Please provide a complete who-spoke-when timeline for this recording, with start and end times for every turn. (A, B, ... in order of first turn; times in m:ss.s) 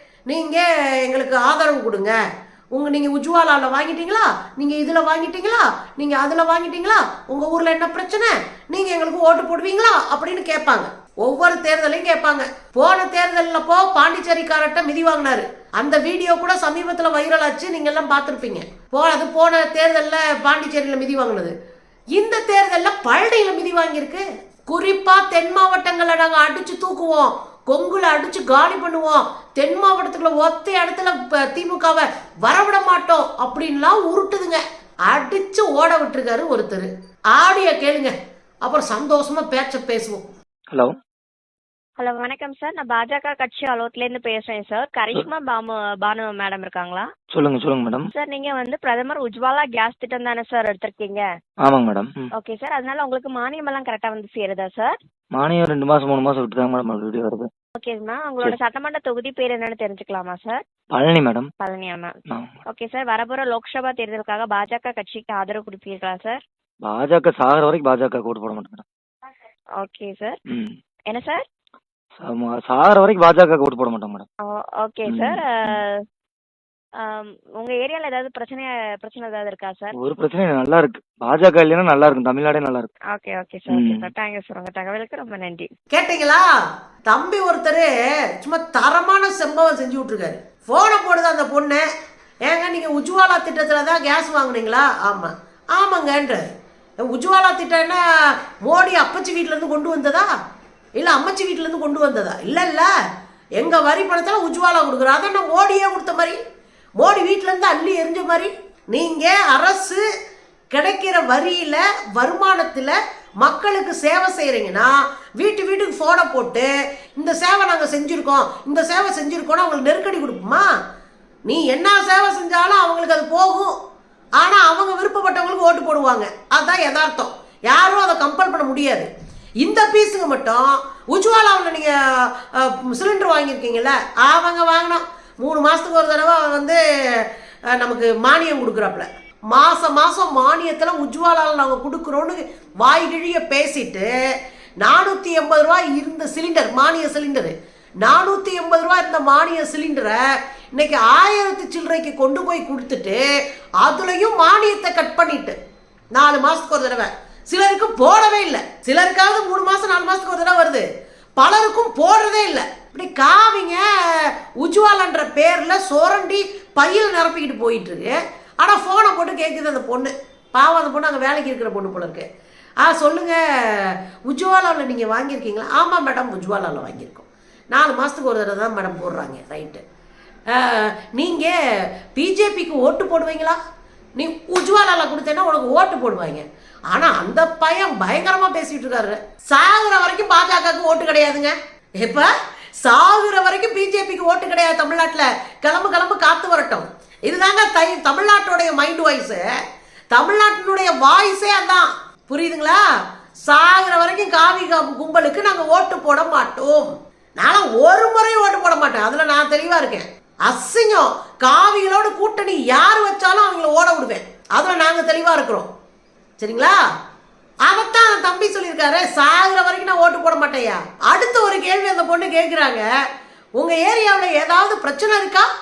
0:00.3-0:02.2 A
0:02.7-0:21.6 A
0:22.2-0:38.1 A
0:38.6-0:40.2 A
0:42.0-0:47.1 B
0:47.3-0:48.1 C
0:48.1-0:51.2 B
0:51.6-0:52.3 C
0:52.4-0:55.0 B
0:55.4-0:57.5 C
0:57.8-1:00.6 B
1:00.9-1:01.5 C
1:01.6-1:06.4 B
1:02.3-1:02.6 C
1:06.8-1:08.8 C
1:09.8-1:10.4 B
1:10.5-1:10.8 C
1:11.1-1:11.4 B
1:12.2-1:14.3 C
1:14.5-1:16.0 B
1:15.1-1:15.8 C
1:17.0-1:20.0 B
1:20.0-1:22.9 C
1:23.1-1:25.7 B
1:23.7-1:24.1 C
1:25.9-1:26.4 A
1:27.1-1:27.9 A
1:28.4-1:31.8 A
1:32.5-1:36.4 A
1:37.1-1:40.3 A
1:41.0-1:42.9 A
1:43.6-1:46.4 A
1:47.0-1:50.0 A
1:50.7-2:00.7 A
2:01.5-2:03.7 A
2:04.4-2:09.1 A
2:09.6-2:24.1 A
2:24.8-2:30.2 A
2:30.7-2:33.2 A
2:33.8-2:35.6 A
2:36.1-2:40.8 A
2:41.4-2:52.3 A
2:52.8-2:59.8 A
3:00.5-3:01.6 A
3:02.2-3:03.6 A
3:04.2-3:12.3 A
3:12.8-3:19.4 A
3:20.1-3:22.8 A
3:23.5-3:35.7 A
3:36.4-3:36.8 A
3:37.7-3:42.9 A
3:43.6-3:45.5 A